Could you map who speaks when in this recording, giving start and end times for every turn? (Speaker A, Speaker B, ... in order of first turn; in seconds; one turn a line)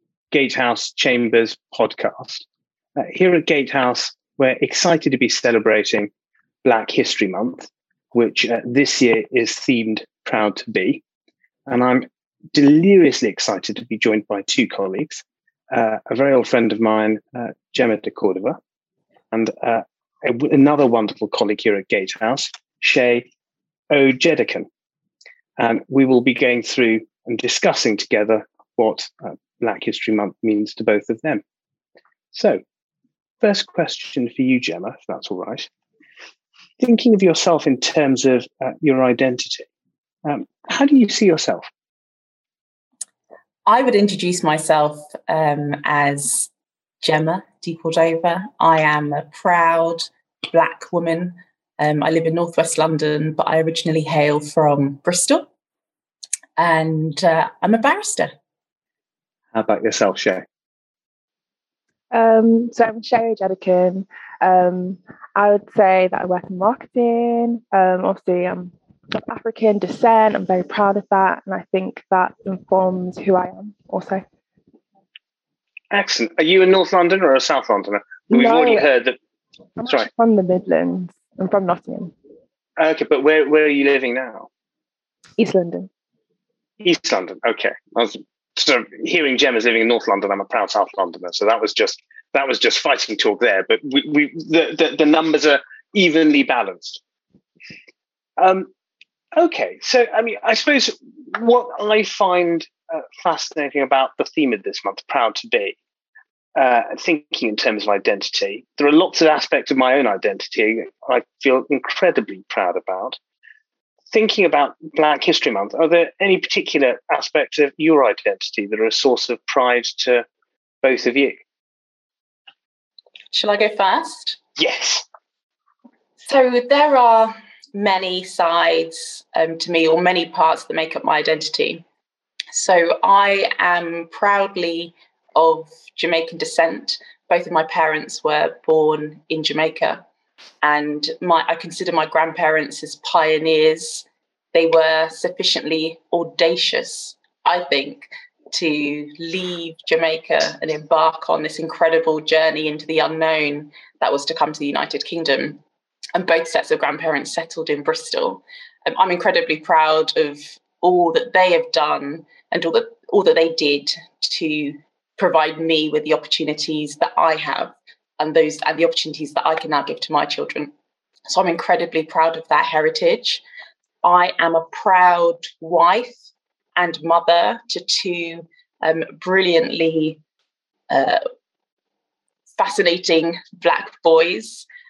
Speaker A: 0.3-2.5
Speaker A: 3.0-6.1
Speaker A: 6.6-11.0
Speaker A: 11.7-18.6
Speaker A: 19.3-23.3
Speaker A: 23.9-24.7
Speaker A: 25.6-31.4
Speaker A: 32.3-32.6
Speaker A: 33.4-35.7
Speaker A: 36.8-39.7
Speaker A: 40.3-41.7
Speaker B: 43.7-46.5
Speaker B: 47.0-55.5
Speaker B: 56.6-58.3
Speaker A: 59.5-60.5
Speaker C: 62.1-74.2
Speaker A: 75.9-79.2
Speaker C: 78.3-78.9
Speaker C: 79.8-82.1
Speaker A: 82.8-84.5
Speaker C: 85.4-85.9
Speaker A: 86.8-97.0
Speaker A: 98.4-98.7
Speaker A: 99.4-105.8
Speaker A: 106.6-113.2
Speaker A: 114.1-120.3
Speaker A: 120.8-121.4
Speaker B: 123.3-124.4
Speaker A: 124.6-125.0
Speaker B: 126.2-131.8
Speaker B: 132.5-140.0
Speaker B: 140.6-155.6
Speaker B: 156.2-170.7
Speaker B: 171.3-173.4
Speaker B: 174.0-176.2
Speaker B: 176.8-180.2
Speaker B: 180.9-181.2
Speaker B: 182.5-184.7